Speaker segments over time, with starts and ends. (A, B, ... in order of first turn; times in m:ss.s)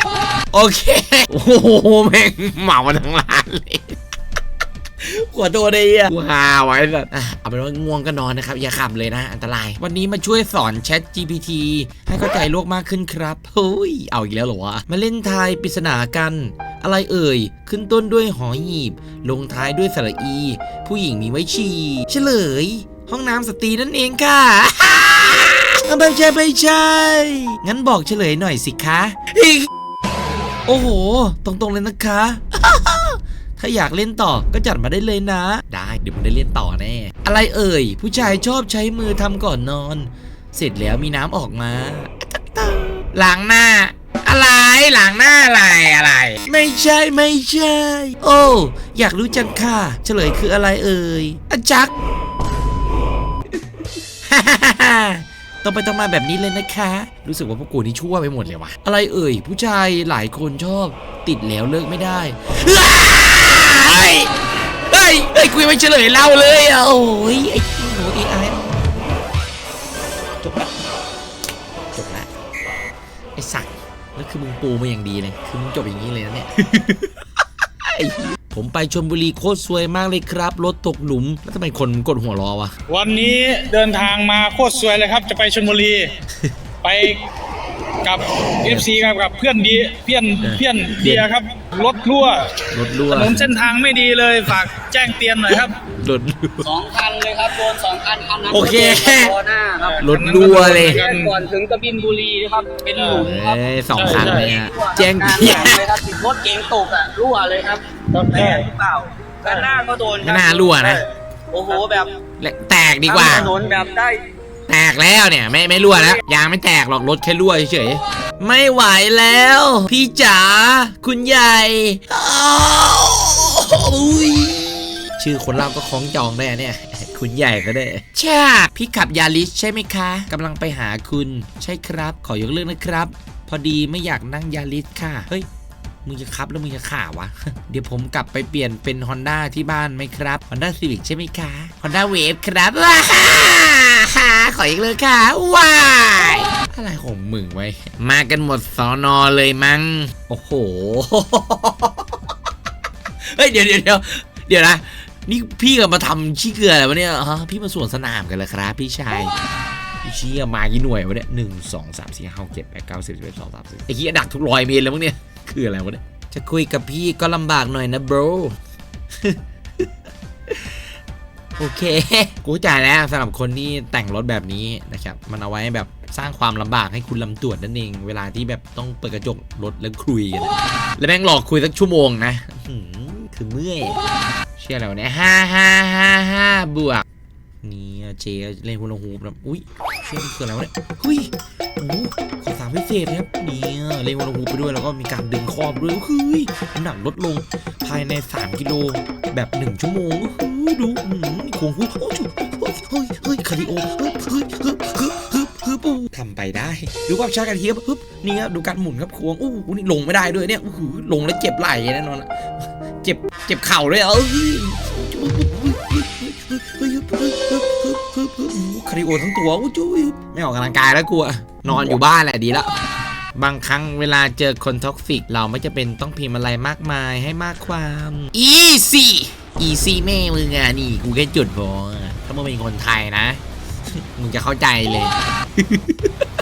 0:00.5-0:04.0 A
0:05.0-0:29.7 A
0:30.6-0:51.9 A
0:54.2-1:04.3 A
1:04.9-1:09.0 A
1:10.4-1:10.8 A
1:11.9-1:12.3 A
1:13.4-1:17.2 A
1:17.8-1:22.7 A
1:22.9-1:26.1 B
1:26.8-1:27.2 B
1:28.0-1:32.5 B
1:30.4-1:31.3 A
1:32.7-1:33.5 A
1:33.1-1:35.7 B
1:35.9-1:36.7 A
1:36.6-1:40.0 C
1:38.5-1:39.4 A
1:39.8-1:41.4 B
1:40.0-1:41.0 A
1:40.8-1:43.4 C
1:43.0-1:43.2 B
1:43.1-1:45.8 A
1:44.0-1:44.3 B
1:44.0-1:52.1 C
1:48.2-1:48.6 B
1:50.2-1:51.0 A
1:52.4-1:53.5 A
1:53.1-1:54.2 C
1:54.7-2:15.5 A
2:16.0-2:32.2 A
2:33.2-2:39.3 A
2:40.0-2:48.6 A
2:49.2-2:49.9 A
2:50.5-2:50.8 A
2:51.6-3:04.0 A
3:04.6-3:07.0 A
3:07.6-3:32.3 A
3:33.0-3:42.7 A
3:43.3-3:53.4 A
3:53.9-3:56.1 A